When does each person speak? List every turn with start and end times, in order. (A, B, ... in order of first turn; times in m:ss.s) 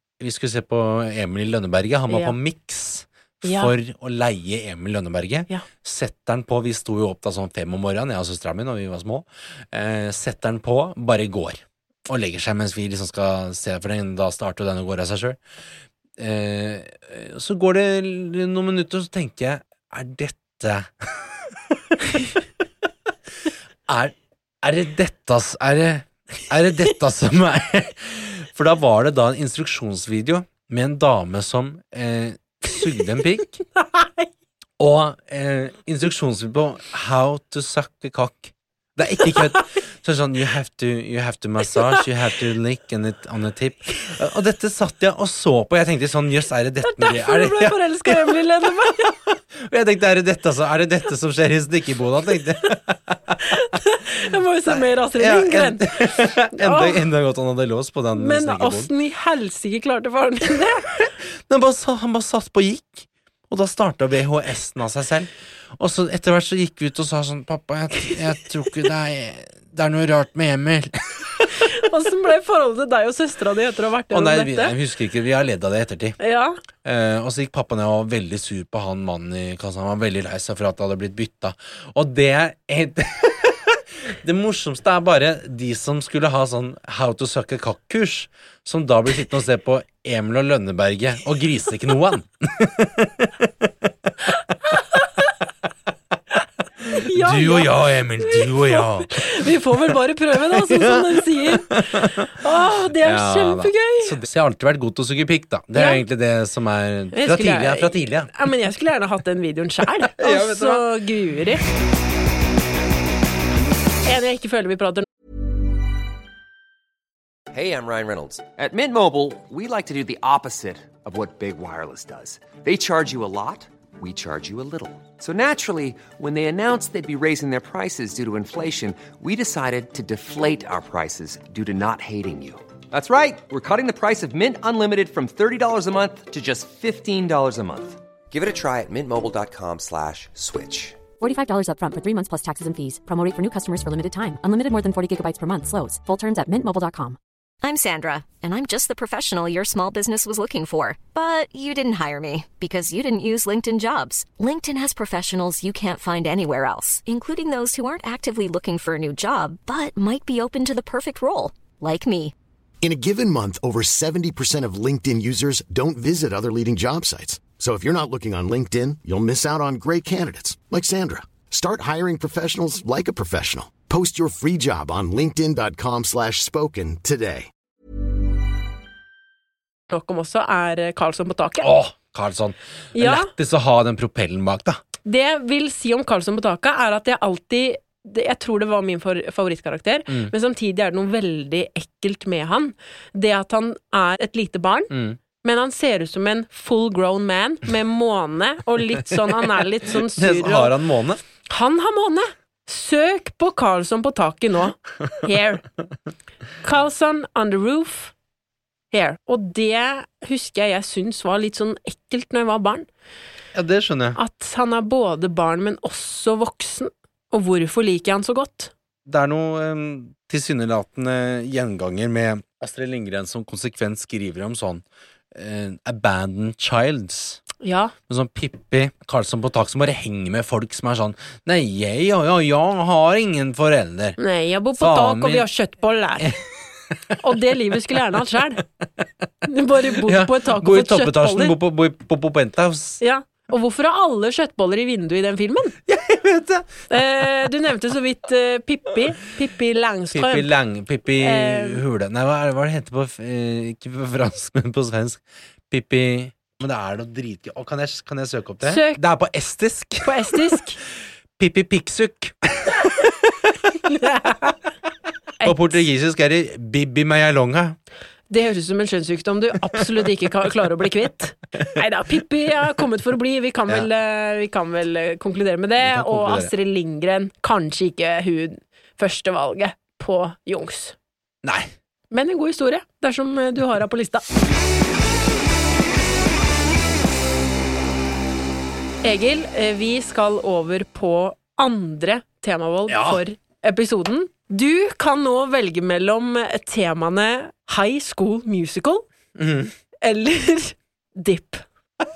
0:00.2-0:15.4 A
0:02.1-0:02.4 B
0:03.4-0:03.7 B
0:16.2-0:21.3 A
0:23.9-0:33.6 A
0:33.8-0:34.3 B
0:34.8-0:53.4 A
0:39.3-0:39.6 B
0:41.7-0:42.0 B
0:46.8-0:49.1 B
0:53.5-0:57.0 B
0:55.2-0:58.9 A
0:58.2-1:00.9 B
1:01.5-1:11.7 A
1:11.8-1:14.7 B
1:14.1-1:16.2 A
1:16.2-1:16.6 B
1:16.8-1:33.5 A
1:34.8-1:35.1 B
1:36.9-1:44.2 B
1:36.9-1:39.2 A
1:40.5-1:42.3 A
1:43.0-1:48.3 A
1:45.8-1:46.0 B
1:47.1-1:51.6 B
1:50.2-1:50.9 A
1:54.0-1:55.1 B
1:57.5-2:21.0 C
2:21.2-2:27.2 D
2:27.6-2:42.3 E
2:42.8-2:57.5 F
2:59.9-3:01.7 B
3:01.6-3:04.8 A
3:03.0-3:03.3 B
3:05.0-3:20.7 B
3:14.9-3:15.2 A
3:20.0-3:21.2 A
3:21.5-3:25.6 B
3:26.6-3:28.1 B
3:28.9-3:32.9 B
3:33.6-3:34.2 A
3:34.2-3:38.7 B
3:39.1-3:44.8 A
3:45.4-3:47.4 A
3:47.6-3:47.9 B
3:48.1-3:54.2 A
3:54.2-3:56.4 B
3:54.8-3:55.5 A
3:57.2-3:58.6 B
3:59.5-4:01.6 B
4:00.0-4:03.0 A
4:03.0-4:05.8 B
4:05.9-4:06.9 A
4:06.9-4:10.5 B
4:10.1-4:20.4 A
4:11.2-4:11.8 B
4:18.6-4:19.0 B
4:20.0-4:20.8 B
4:21.4-4:22.9 A
4:23.8-4:24.6 B
4:25.4-4:25.8 B
4:25.4-4:27.8 A
4:28.3-4:41.0 B
4:35.8-4:36.5 A
4:41.4-4:41.7 A
4:42.1-4:44.2 B
4:49.0-4:59.0 B
4:52.9-4:53.2 A
4:59.4-4:59.7 A
5:00.0-5:01.6 B